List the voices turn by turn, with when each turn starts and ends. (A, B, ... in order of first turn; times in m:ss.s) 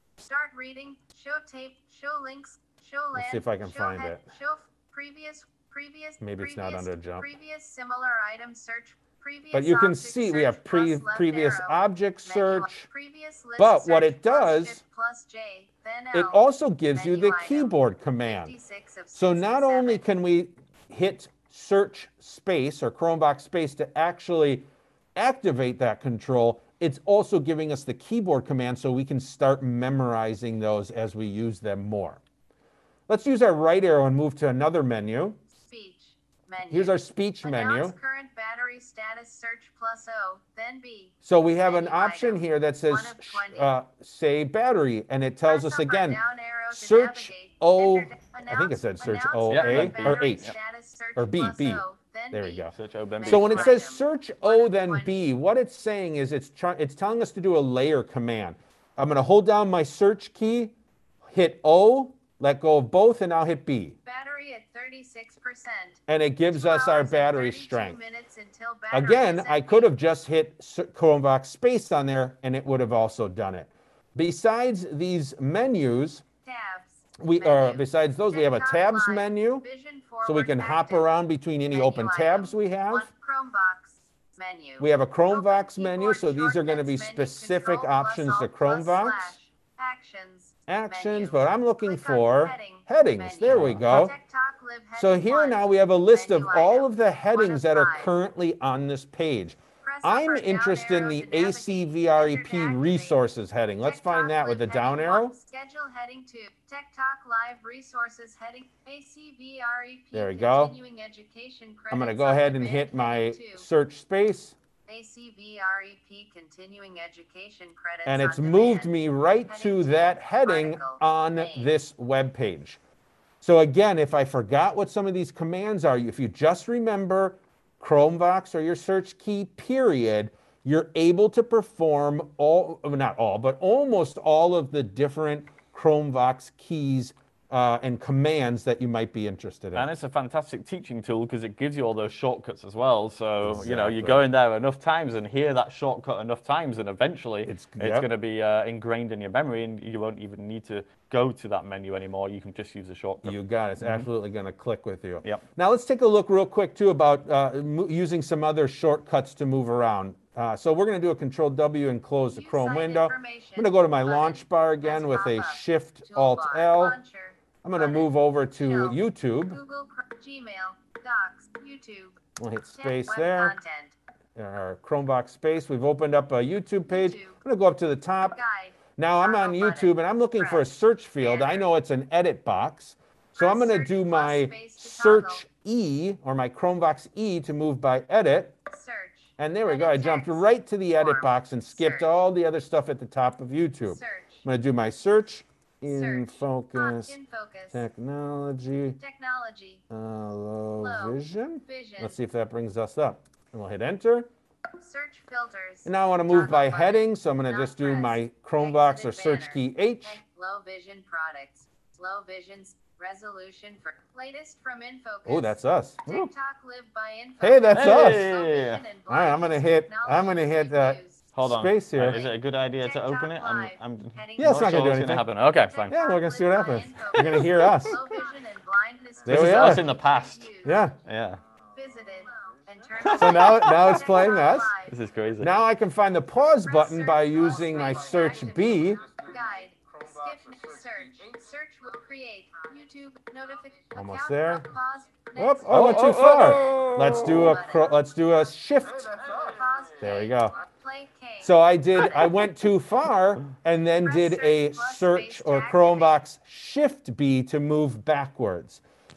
0:00.2-0:16.4 A
0:03.1-0:04.2 B
0:06.2-0:07.2 B
0:09.5-0:12.8 B
0:13.6-0:14.8 B
0:16.1-0:18.5 B
0:16.9-0:17.7 A
0:18.2-0:20.0 A
0:19.1-0:32.2 B
0:33.1-0:35.4 B
0:35.6-0:43.7 A
0:36.7-0:38.0 B
0:41.2-0:46.2 B
0:45.4-0:55.2 A
0:46.7-0:50.5 B
0:49.4-0:50.5 C
0:51.1-0:52.7 B
0:52.7-0:53.8 C
0:53.2-1:00.7 B
1:01.3-1:04.0 B
1:04.0-1:06.0 A
1:06.1-1:08.0 B
1:06.5-1:09.9 A
1:08.9-1:16.2 B
1:16.4-1:21.1 A
1:17.2-1:19.6 B
1:20.2-1:23.1 B
1:21.7-1:38.1 A
1:24.8-1:29.3 B
1:30.7-1:34.1 B
1:33.5-1:33.9 C
1:35.0-1:45.3 B
1:39.8-1:43.2 A
1:43.8-1:53.6 A
1:50.1-1:50.7 B
1:51.9-1:54.6 B
1:54.8-1:58.9 A
1:58.0-2:02.8 B
1:59.4-2:01.7 A
2:03.4-2:19.8 B
2:19.7-2:34.1 C
2:23.4-2:24.2 B
2:27.4-2:28.1 B
2:33.2-2:47.0 B
2:42.4-2:49.0 A
2:47.6-2:49.6 B
2:49.5-2:52.2 A
2:52.4-2:53.6 B
2:52.8-2:53.9 A
2:54.4-2:58.4 B
2:56.9-2:57.4 A
2:58.3-3:00.7 A
2:59.0-3:08.6 B
3:01.2-3:01.6 A
3:03.4-3:05.4 A
3:08.7-3:12.1 A
3:09.4-3:17.1 B
3:13.9-3:14.4 A
3:15.9-3:17.8 A
3:17.7-3:19.0 B
3:19.0-3:19.8 A
3:19.9-3:24.3 B
3:20.8-3:22.2 A
3:24.8-3:41.2 A
3:25.8-3:30.2 B
3:35.2-3:36.1 B
3:37.4-3:38.3 B
3:37.7-3:38.8 C
3:39.1-3:42.2 B
3:41.3-3:46.0 C
3:42.0-3:50.8 A
3:44.4-3:45.3 B
3:45.9-3:48.0 B
3:47.1-3:47.6 C
3:49.2-3:49.9 B
3:49.2-3:50.5 C
3:50.6-3:50.9 B
3:51.0-3:51.4 C
3:51.7-3:55.0 A
3:53.0-3:53.7 C
3:53.1-3:54.7 B
3:54.9-3:55.5 C
3:55.4-3:59.0 B
3:56.6-4:08.0 A
4:03.9-4:04.7 B
4:05.4-4:09.4 B
4:05.7-4:07.6 C
4:09.3-4:12.5 A
4:10.0-4:10.6 B
4:11.4-4:18.8 B
4:14.0-4:16.1 A